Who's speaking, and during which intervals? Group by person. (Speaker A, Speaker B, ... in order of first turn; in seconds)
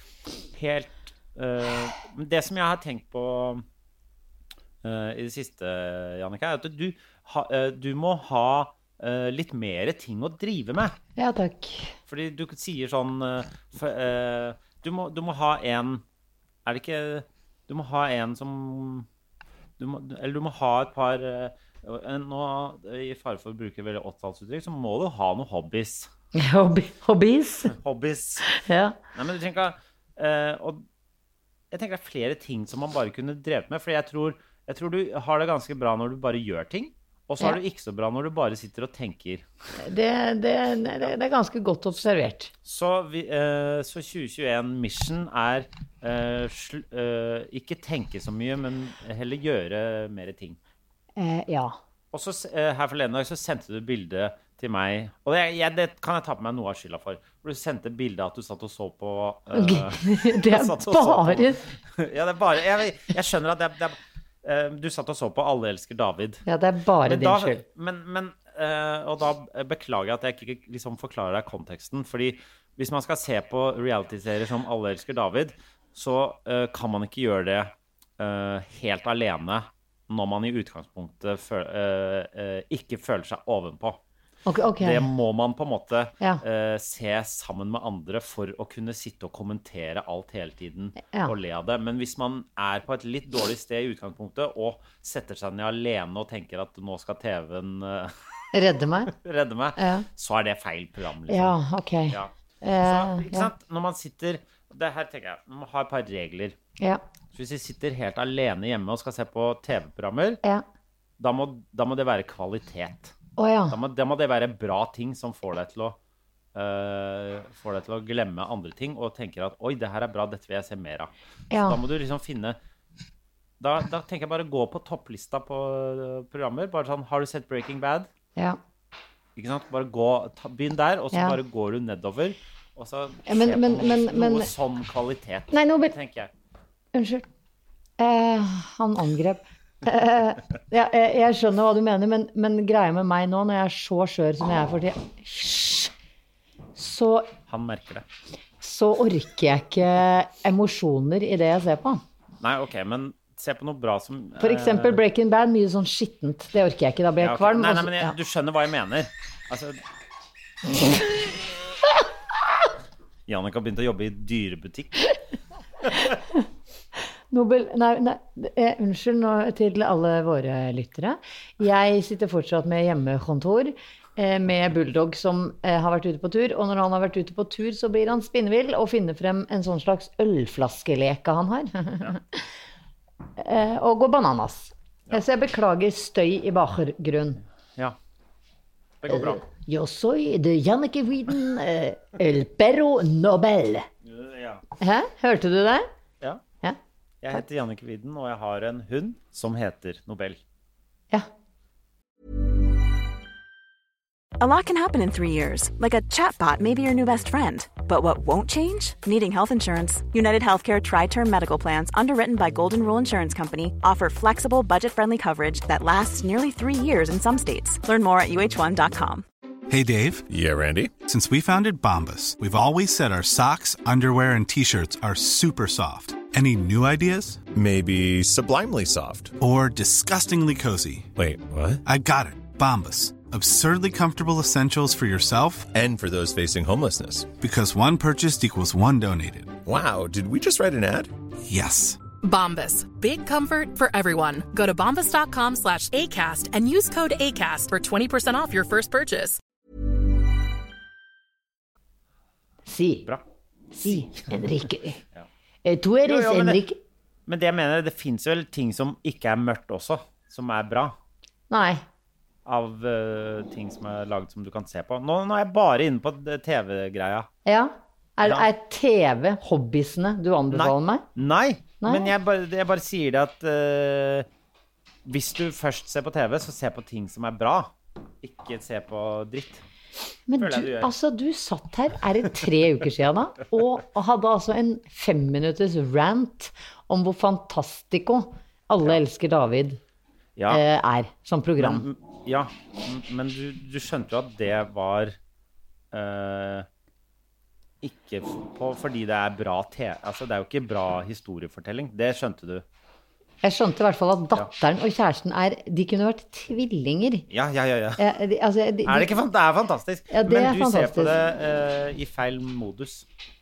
Speaker A: 0.5-3.6, 4.8-10.9, 12.1-16.0, 16.6-19.1, 19.8-26.1, 27.7-28.5, 29.1-30.8, 31.7-39.4, 42.6-50.6, 52.1-66.4, 67.0-84.0, 84.8-98.1, 99.1-101.5, 102.8-106.5, 107.3-110.4, 111.2-113.1, 113.7-116.0, 116.5-122.6, 123.6-128.1, 129.3-136.3, 147.5-148.0, 152.4-155.0, 157.2-159.8, 163.3-165.1, 189.0-189.4, 194.0-194.6, 197.2-200.4, 256.0-256.6, 257.3-260.9, 262.4-267.3, 270.5-274.3, 275.0-279.6, 280.4-280.9, 290.4-290.6, 291.6-295.1, 295.9-296.6, 297.8-302.6, 307.3-308.0, 308.8-313.1
Speaker B: 11.2-11.9, 26.3-27.7, 28.5-28.9, 39.8-42.5, 51.2-51.8, 59.5-61.6, 66.5-67.6, 84.5-85.1, 91.1-91.3, 98.5-99.1, 99.8-100.0, 101.3-103.5, 113.4-113.7, 121.5-121.8, 133.2-134.5, 135.5-135.9, 136.9-137.2, 138.0-145.9, 146.8-147.3, 148.6-152.0, 154.4-158.2, 167.3-182.2, 183.4-187.4, 189.1-193.9, 194.8-195.9, 252.7-253.1, 253.7-255.0, 255.6-256.8, 261.5-261.8, 267.4-271.0, 271.8-272.1, 280.3-289.8, 290.5-291.8, 303.4-307.3, 308.0-309.1, 310.1-311.1
Speaker C: 204.4-219.2
Speaker D: 219.7-220.2, 221.0-227.4, 229.4-231.1, 231.8-235.7, 237.3-239.6, 241.5-242.0
Speaker E: 220.3-220.9, 227.5-229.3, 231.2-231.8, 235.7-237.3, 239.7-241.1
Speaker F: 242.2-249.4